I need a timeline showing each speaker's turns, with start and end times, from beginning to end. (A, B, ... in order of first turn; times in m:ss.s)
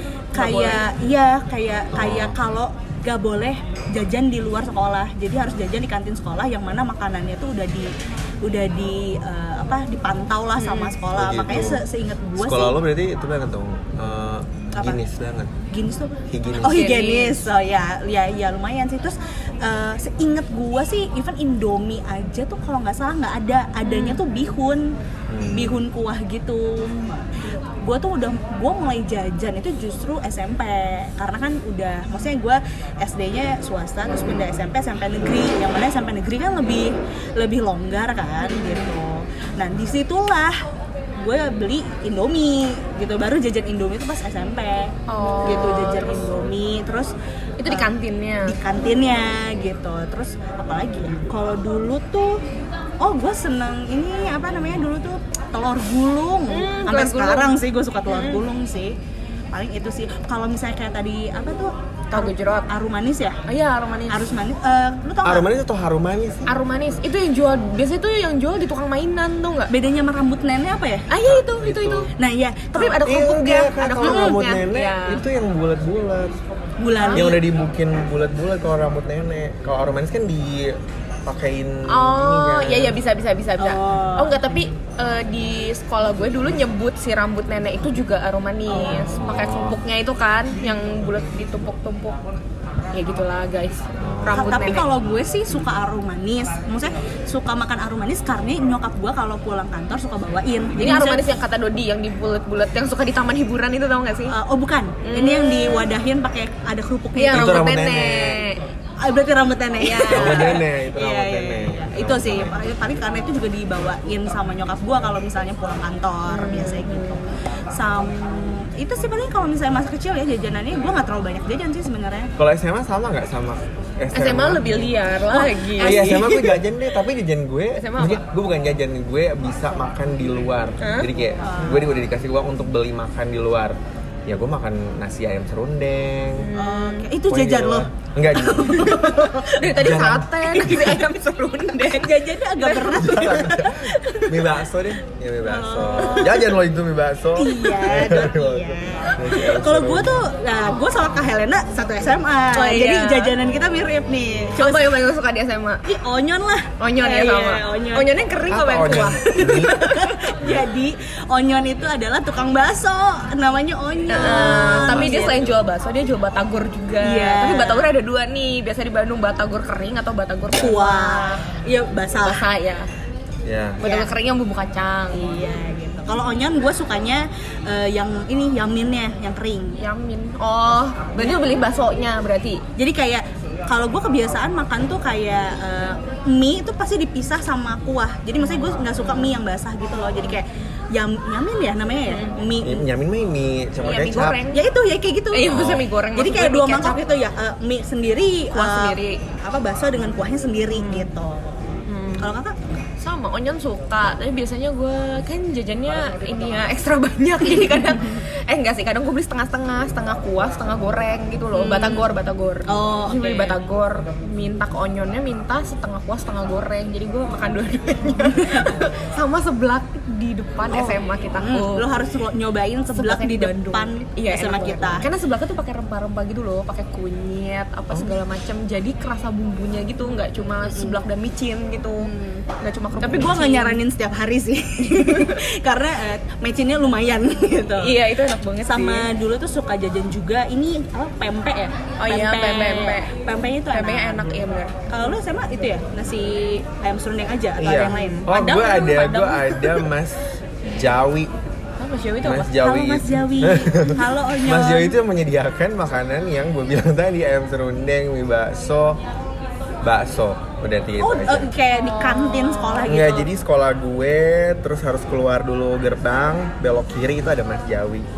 0:00.3-0:12.8 A
0:00.4-0:00.8 B
0:01.9-0:02.3 C
0:10.6-0:11.0 B
0:11.1-0:11.8 C
0:12.4-0:15.6 C
0:14.7-0:15.0 A
0:15.7-0:24.9 A
0:16.3-0:16.9 C
0:16.6-0:17.5 B
0:23.8-0:24.2 B
0:25.3-0:25.8 C
0:25.5-0:40.5 A
0:38.4-0:38.8 B
0:41.2-0:47.1 A
0:45.1-0:46.3 B
0:47.6-0:48.6 B
0:47.7-0:47.9 A
0:48.4-0:52.4 A
0:53.0-0:59.0 A
0:56.5-0:57.5 B
0:58.1-0:58.4 B
0:59.5-1:03.4 A
1:02.1-1:02.7 B
1:03.5-1:04.3 B
1:04.1-1:05.5 A
1:05.2-1:06.5 C
1:06.5-1:09.7 B
1:09.7-1:11.1 A
1:11.1-1:12.1 B
1:11.2-1:12.1 C
1:12.2-1:13.2 A
1:12.7-1:15.2 B
1:13.0-1:16.4 C
1:14.0-1:14.4 A
1:16.8-1:17.4 A
1:16.9-1:17.4 B
1:17.1-1:23.0 C
1:21.9-1:32.3 B
1:23.6-1:24.4 A
1:29.1-1:29.8 C
1:32.9-1:34.9 B
1:34.0-1:34.7 C
1:34.3-1:41.3 A
1:40.8-1:44.3 B
1:44.3-1:47.7 A
1:45.0-1:45.9 B
1:47.2-1:48.6 B
1:47.3-1:48.4 C
1:49.0-1:57.1 A
1:49.8-1:50.6 B
1:50.1-1:52.5 C
1:56.3-1:57.3 B
1:57.7-2:02.3 A
2:02.4-2:04.9 C
2:04.1-2:06.2 B
2:05.3-2:06.6 A
2:05.8-2:16.4 C
2:07.7-2:08.2 B
2:10.8-2:11.1 B
2:11.4-2:11.9 A
2:16.4-2:17.1 B
2:16.6-2:19.6 A
2:17.3-2:19.1 C
2:18.7-2:23.1 B
2:19.6-2:21.0 C
2:20.6-2:21.1 A
2:21.7-2:24.3 A
2:22.9-2:30.2 C
2:23.9-2:24.3 B
2:25.4-2:26.5 A
2:26.0-2:26.3 B
2:27.3-2:35.0 A
2:32.5-2:33.4 B
2:34.5-2:35.8 B
2:35.8-2:38.1 A
2:36.8-2:40.2 B
2:38.5-2:39.8 C
2:39.3-2:45.3 A
2:44.1-2:51.4 B
2:44.1-2:45.6 C
2:47.0-2:47.9 A
2:50.6-2:52.5 A
2:52.2-2:52.9 B
2:53.4-2:53.8 C
2:53.8-2:54.1 A
2:53.8-2:55.2 B
2:55.1-2:59.8 A
2:59.8-3:02.6 B
3:02.8-3:12.8 A
3:09.0-3:09.3 B
3:12.1-3:12.4 B
3:12.6-3:14.4 C
3:13.8-3:14.6 B
3:14.5-3:15.6 A
3:15.3-3:17.0 B
3:15.5-3:15.8 C
3:16.1-3:21.6 A
3:18.5-3:19.2 B
3:20.7-3:21.0 B
3:21.9-3:22.3 B
3:22.2-3:22.6 A
3:23.0-3:41.8 B
3:27.5-3:28.2 A
3:31.5-3:32.1 A
3:32.7-3:33.6 A
3:38.3-3:38.7 A
3:40.7-3:45.1 A
3:42.9-3:52.1 B
3:50.6-3:51.0 A
3:52.0-3:52.4 A
3:52.6-3:53.8 B
3:53.0-3:58.0 A
3:54.8-3:55.4 B
3:57.8-3:59.1 B
3:58.6-4:04.3 A
4:02.0-4:03.1 B
4:03.7-4:04.7 B
4:04.9-4:08.8 A
4:07.6-4:11.3 C
4:07.9-4:09.7 B
4:11.8-4:12.5 B
4:12.2-4:19.0 C
4:12.6-4:15.0 A
4:19.8-4:21.5 C
4:21.0-4:23.3 A
4:21.7-4:23.2 B
4:22.8-4:28.1 C